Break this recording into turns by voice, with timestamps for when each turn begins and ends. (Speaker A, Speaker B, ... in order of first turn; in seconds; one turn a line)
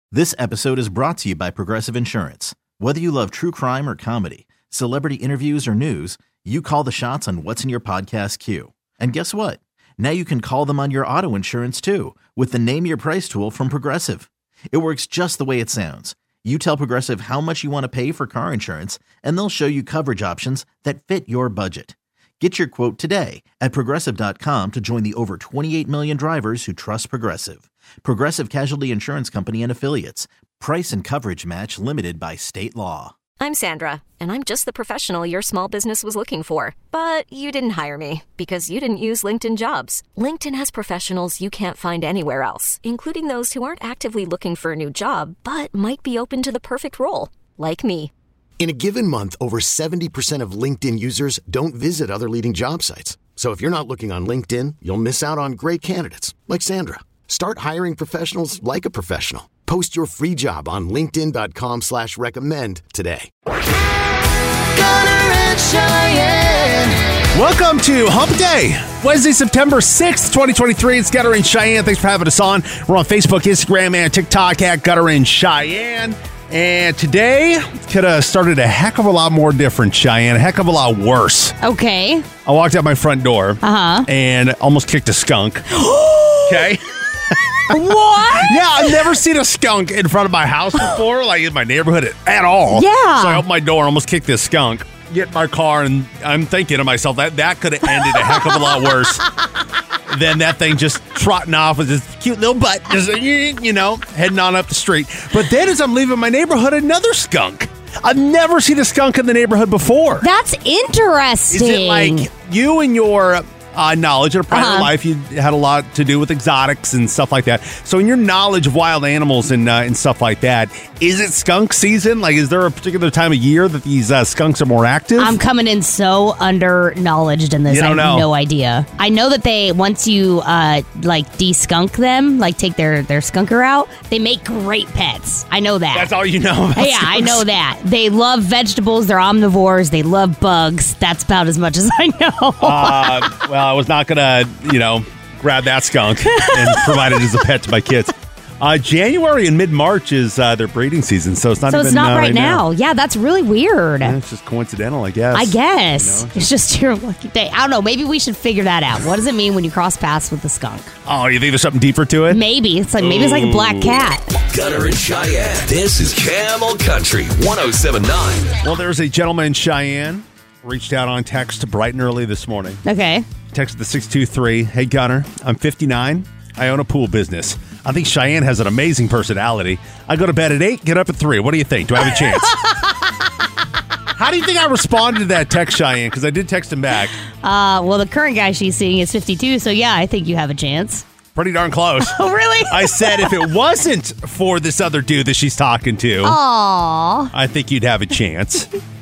Speaker A: 0.1-33.1
Speaker B: 33.4-48.1
Speaker C: 48.6-63.3
Speaker C: 64.7-67.0
Speaker D: 67.3-81.6
Speaker E: 81.6-82.3
Speaker D: 82.5-85.7
Speaker E: 83.6-84.1
Speaker E: 85.7-86.7
Speaker D: 86.5-86.8
Speaker E: 87.7-89.1
Speaker D: 87.7-99.3
Speaker E: 92.7-93.4
Speaker E: 98.0-98.9
Speaker D: 100.1-110.3
Speaker E: 110.2-112.3
Speaker D: 111.5-125.4
Speaker E: 114.5-114.9
Speaker E: 125.2-136.1
Speaker D: 127.7-128.3
Speaker D: 135.9-137.4
Speaker E: 136.8-143.3
Speaker D: 142.6-152.6
Speaker E: 146.3-147.0
Speaker E: 151.7-154.2
Speaker D: 154.0-156.5
Speaker E: 155.3-160.9
Speaker D: 161.1-162.4
Speaker E: 162.3-164.3
Speaker D: 163.0-164.1
Speaker F: 164.5-168.6
Speaker D: 168.6-172.8
Speaker E: 172.8-173.2
Speaker D: 173.5-182.6
Speaker D: 184.2-187.1
Speaker E: 187.4-191.1
Speaker D: 191.3-192.2
Speaker E: 192.0-193.5
Speaker D: 192.7-196.4
Speaker E: 196.2-197.3
Speaker D: 197.3-198.7